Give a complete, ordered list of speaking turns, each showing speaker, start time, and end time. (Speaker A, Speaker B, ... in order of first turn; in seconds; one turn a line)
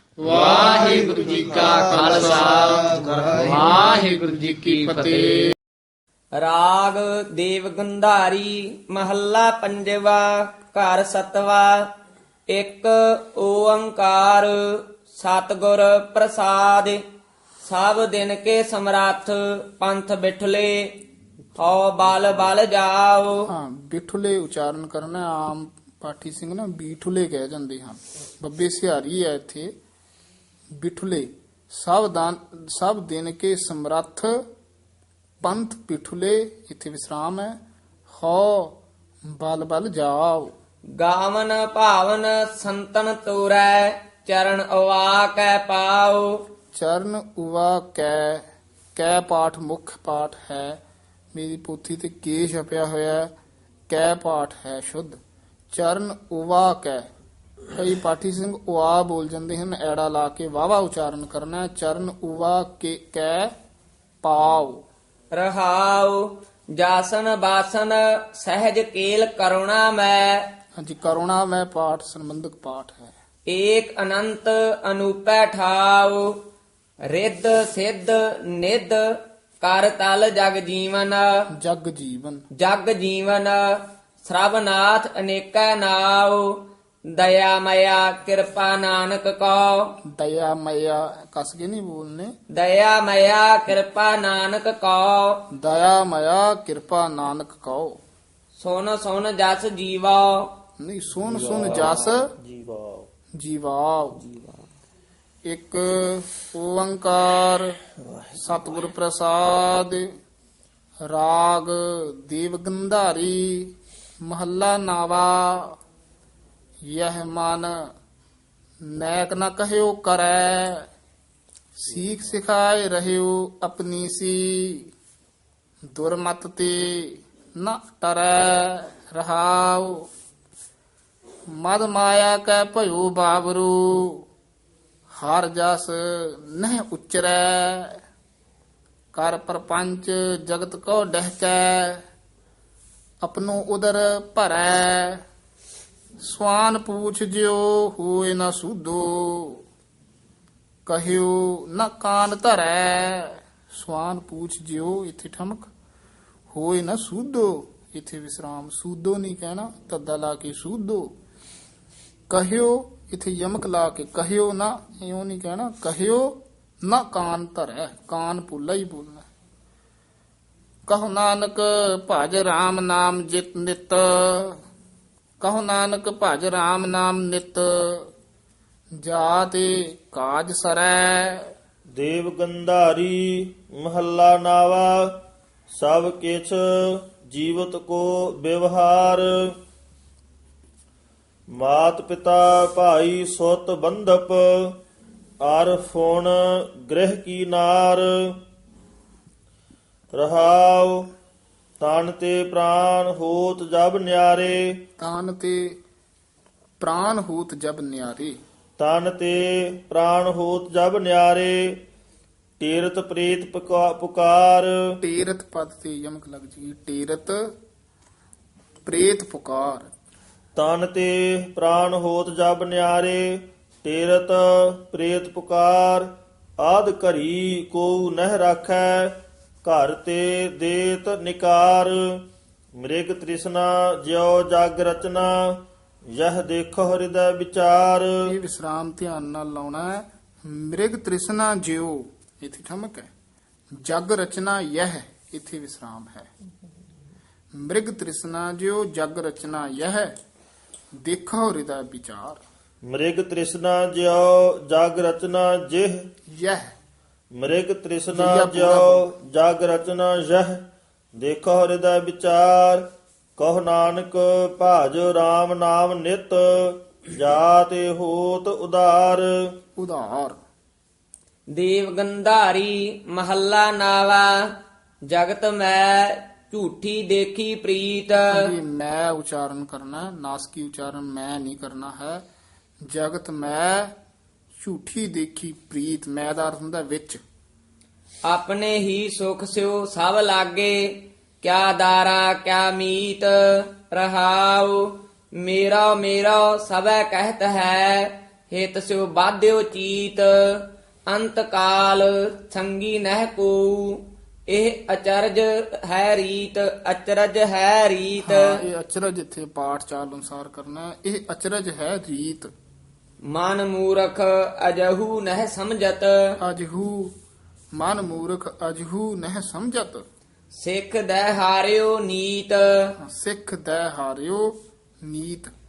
Speaker A: 0.2-5.5
Speaker B: 1.6-4.0
Speaker B: 6.3-11.8
Speaker B: 12.5-17.0
Speaker B: 17.6-20.9
Speaker B: 21.6-23.5
Speaker C: 23.5-29.7
Speaker C: 30.7-34.4
Speaker C: 35.4-38.8
Speaker C: 39.3-40.5
Speaker B: 41.0-46.4
Speaker C: 46.7-48.4
Speaker C: 48.9-50.8
Speaker C: 51.3-53.3
Speaker C: 53.9-55.2
Speaker C: 55.7-57.1
Speaker C: 57.7-63.5
Speaker C: 64.2-64.8
Speaker B: 65.3-70.5
Speaker C: 70.8-73.1
Speaker B: 73.5-76.4
Speaker B: 77.1-81.3
Speaker C: 81.6-82.4
Speaker B: 82.6-90.0
Speaker C: 90.1-92.3
Speaker B: 92.5-95.5
Speaker C: 95.5-98.0
Speaker B: 98.5-100.5
Speaker C: 100.8-102.3
Speaker D: 101.2-103.1
Speaker C: 103.4-104.2
Speaker C: 105.5-107.8
Speaker D: 108.1-108.6
Speaker C: 108.4-110.1
Speaker C: 111.0-115.8
Speaker C: 116.8-117.9
Speaker C: 118.8-120.9
Speaker C: 121.8-124.9
Speaker C: 125.9-130.1
Speaker C: 131.6-134.3
Speaker C: 135.2-138.0
Speaker C: 139.1-142.0
Speaker C: 143.2-145.2
Speaker C: 146.2-149.6
Speaker C: 150.8-155.7
Speaker C: 156.5-161.1
Speaker C: 162.3-169.3
Speaker C: 170.9-174.6
Speaker C: 175.4-178.1
Speaker C: 179.0-181.5
Speaker D: 181.9-185.1
Speaker D: 185.7-189.5
Speaker D: 191.6-194.8
Speaker D: 195.4-198.3
Speaker D: 200.2-201.1
Speaker D: 201.8-204.6
Speaker C: 205.0-205.8
Speaker C: 206.8-208.4
Speaker D: 208.8-211.6
Speaker D: 212.6-214.7
Speaker C: 215.0-217.5
Speaker C: 218.8-219.9
Speaker D: 220.6-232.0
Speaker D: 232.8-235.6
Speaker D: 236.1-238.1
Speaker C: 238.2-243.1
Speaker C: 243.8-246.3
Speaker C: 247.5-250.1
Speaker C: 251.0-252.4
Speaker D: 252.9-256.0
Speaker C: 256.3-256.7
Speaker D: 257.4-260.6
Speaker C: 258.1-259.1
Speaker D: 261.2-262.8
Speaker D: 263.4-269.3
Speaker C: 269.8-270.4
Speaker B: 271.5-274.5
Speaker B: 275.1-278.5
Speaker C: 278.3-282.2
Speaker C: 282.9-283.9
Speaker C: 284.6-287.2
Speaker B: 288.2-308.6
Speaker C: 308.2-312.5
Speaker B: 313.2-316.4
Speaker C: 316.4-317.1
Speaker C: 317.7-320.0
Speaker B: 320.5-322.9
Speaker C: 323.0-325.5